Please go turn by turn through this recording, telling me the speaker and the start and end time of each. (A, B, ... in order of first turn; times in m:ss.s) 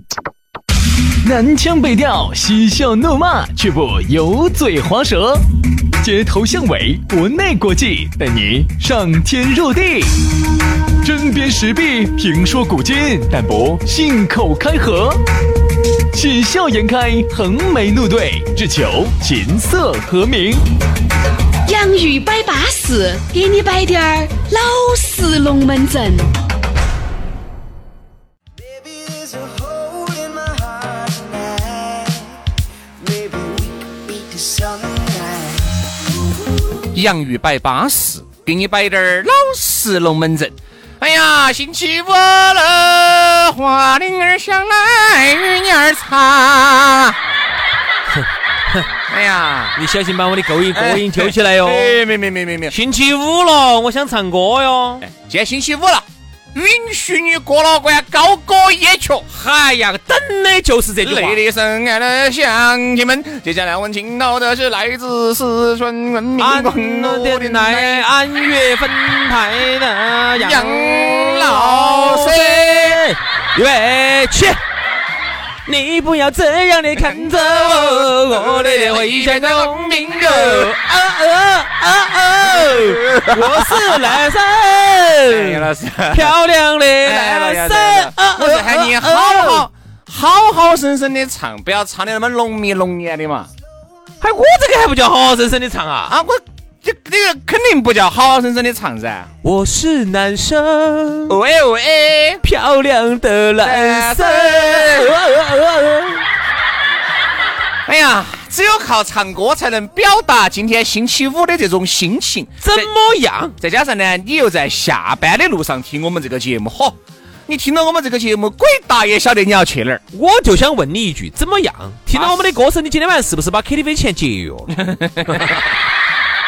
0:01.2-0:05.4 A
0:06.0-0:10.2 A
0:11.0-0:15.2 A
0:16.1-0:20.6 A
0:21.6-0:26.3 B
0:28.6-0:32.4 C
0:33.0-0:35.7 C
0:36.9-0:47.2 D
0:48.1-0:48.9 E
0:49.1-0:49.8 D
0:49.8-0:52.0 E
0:50.7-0:52.7 D
0:52.7-0:55.0 E
0:55.0-0:59.3 D
0:59.3-1:01.4 E
1:01.0-1:08.0 D
1:06.4-1:14.6 E
1:10.4-1:13.0 D
1:15.6-1:29.7 E
1:17.0-1:20.7 D
1:22.4-1:24.2 D
1:25.3-1:26.4 D
1:27.0-1:33.5 D
1:34.2-1:36.1 E
1:36.1-1:39.3 D
1:39.4-1:41.4 E
1:41.3-1:42.4 D
1:42.4-1:46.2 E
1:43.6-1:45.1 D
1:47.8-1:52.9 D
1:52.6-1:53.6 E
1:53.6-2:00.0 D
2:00.1-2:05.6 E
2:02.1-2:02.4 D
2:04.7-2:05.7 D